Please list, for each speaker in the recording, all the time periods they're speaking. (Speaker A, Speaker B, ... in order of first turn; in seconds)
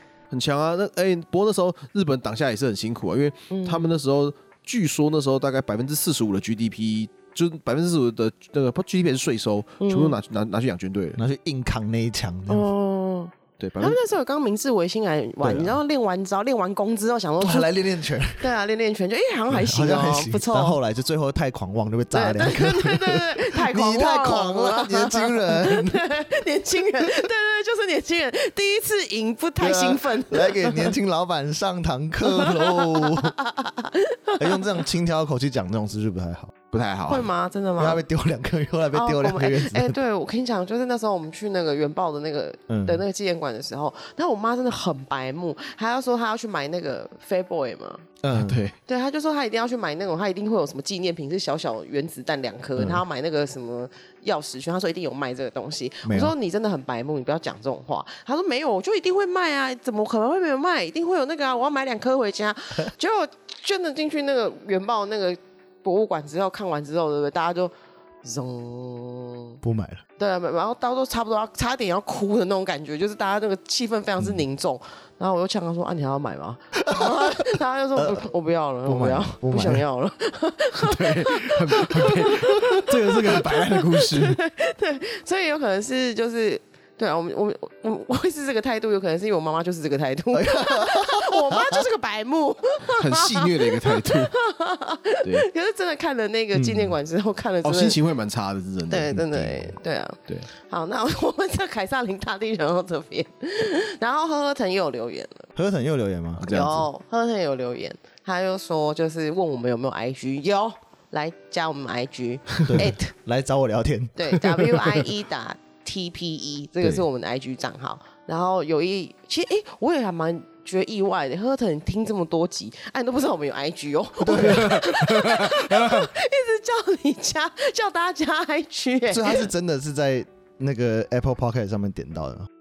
Speaker A: 0.3-11.2, 13.6-14.0, 36.7-37.3, 48.3-48.7, 80.8-84.4, 92.9-94.3, 96.7-96.9, 97.6-99.8, 106.4-106.8, 124.4-126.1
Speaker B: 3.5-3.9, 9.8-10.2, 12.5-17.7, 18.4-20.8, 22.1-30.9, 32.2-34.7, 37.1-38.0, 38.9-48.0, 48.9-67.7, 68.2-69.6, 70.2-98.0, 98.9-105.5, 106.5-113.1, 114.2-129.5
Speaker C: 11.2-12.7, 15.4-15.8, 17.4-18.4, 19.5-26.0, 29.6-33.3, 34.4-36.5, 37.8-40.0, 42.7-43.0, 48.2-48.6, 52.8-53.0, 56.0-56.3, 69.6-70.0, 76.9-77.2, 78.0-78.2, 78.8-79.8, 90.3-91.8, 105.5-106.6, 112.6-114.4, 124.2-124.9, 129.1-132.5